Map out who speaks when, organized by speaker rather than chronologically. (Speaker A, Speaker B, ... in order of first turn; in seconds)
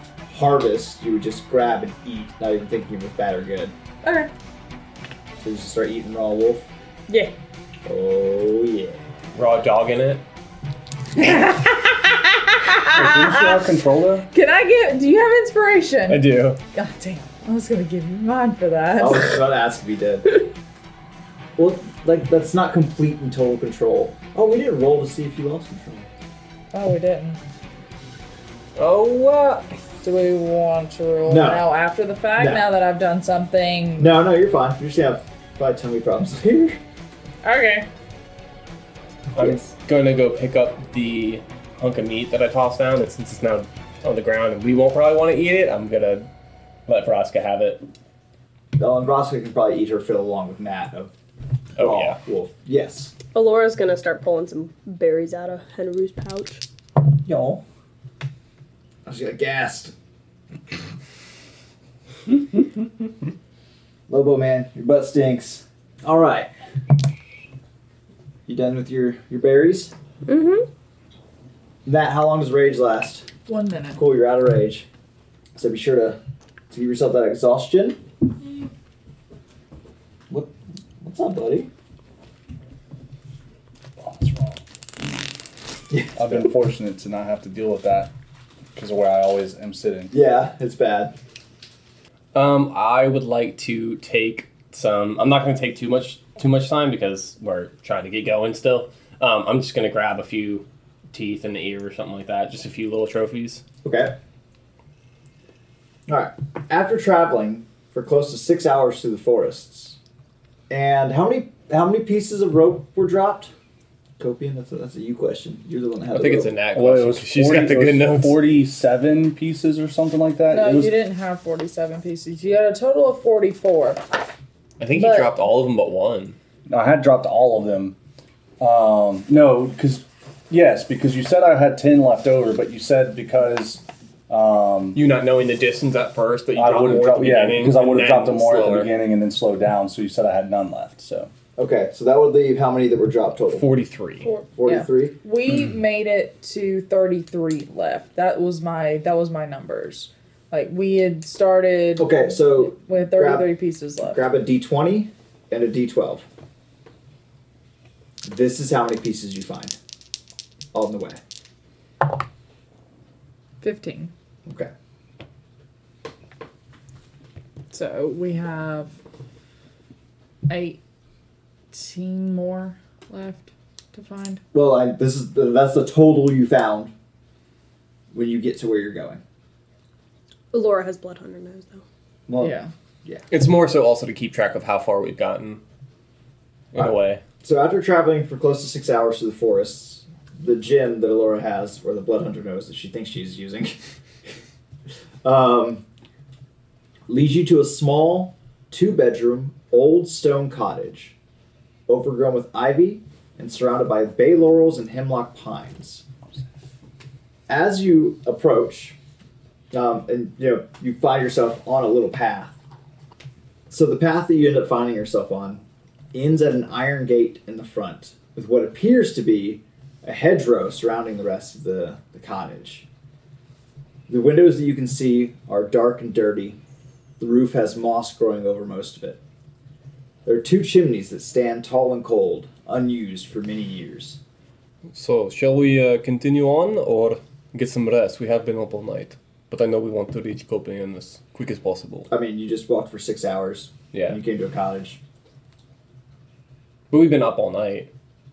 Speaker A: 0.3-3.7, 5.4-6.7, 7.8-9.0, 19.0-20.4, 21.6-26.1, 31.3-31.7, 32.4-32.6, 34.0-36.8, 48.8-51.1, 51.8-53.1, 57.2-57.6, 59.0-59.9, 64.1-66.5, 68.5-69.9, 71.8-73.3, 74.0-74.9, 75.5-76.2, 76.7-78.0, 80.3-81.7, 85.9-86.4, 90.1-91.1, 103.8-104.1, 106.1-110.0, 110.7-113.5, 114.2-116.5, 141.6-143.7, 144.6-145.1, 152.0-153.5, 154.1-156.2, 158.2-159.7, 160.7-161.2, 164.4-164.7, 174.5-176.9, 178.1-179.2, 182.3-183.2, 186.8-193.8, 195.2-195.8, 197.1-201.1, 201.9-206.0, 207.5-208.9, 209.7-212.6, 213.7-222.8, 224.1-226.6, 227.2-229.2, 230.2-234.2, 242.1-245.0
Speaker B: 4.0-4.3, 7.1-7.3, 11.2-13.7, 14.3-19.4, 26.7-27.4, 30.0-34.1, 37.4-37.9, 73.5-74.0, 120.5-124.0, 124.9-125.3, 144.2-154.2, 163.6-164.1, 167.7-168.9, 170.5-170.8, 171.7-174.4, 182.4-182.7
Speaker C: 9.3-10.2, 16.1-16.6, 28.8-29.7, 39.3-46.3, 46.9-47.8, 51.8-52.2, 92.3-103.6, 116.1-118.4, 124.8-126.3, 134.9-138.9, 143.5-144.3, 183.3-185.6, 186.7-187.2, 234.9-242.1, 243.9-244.2, 246.9-247.9
Speaker D: 12.9-14.3, 84.0-84.6, 86.2-88.1, 88.7-90.1, 116.7-121.0, 126.7-128.0, 128.6-135.0, 136.6-141.3
Speaker E: 53.3-56.6, 70.2-70.7, 180.5-181.8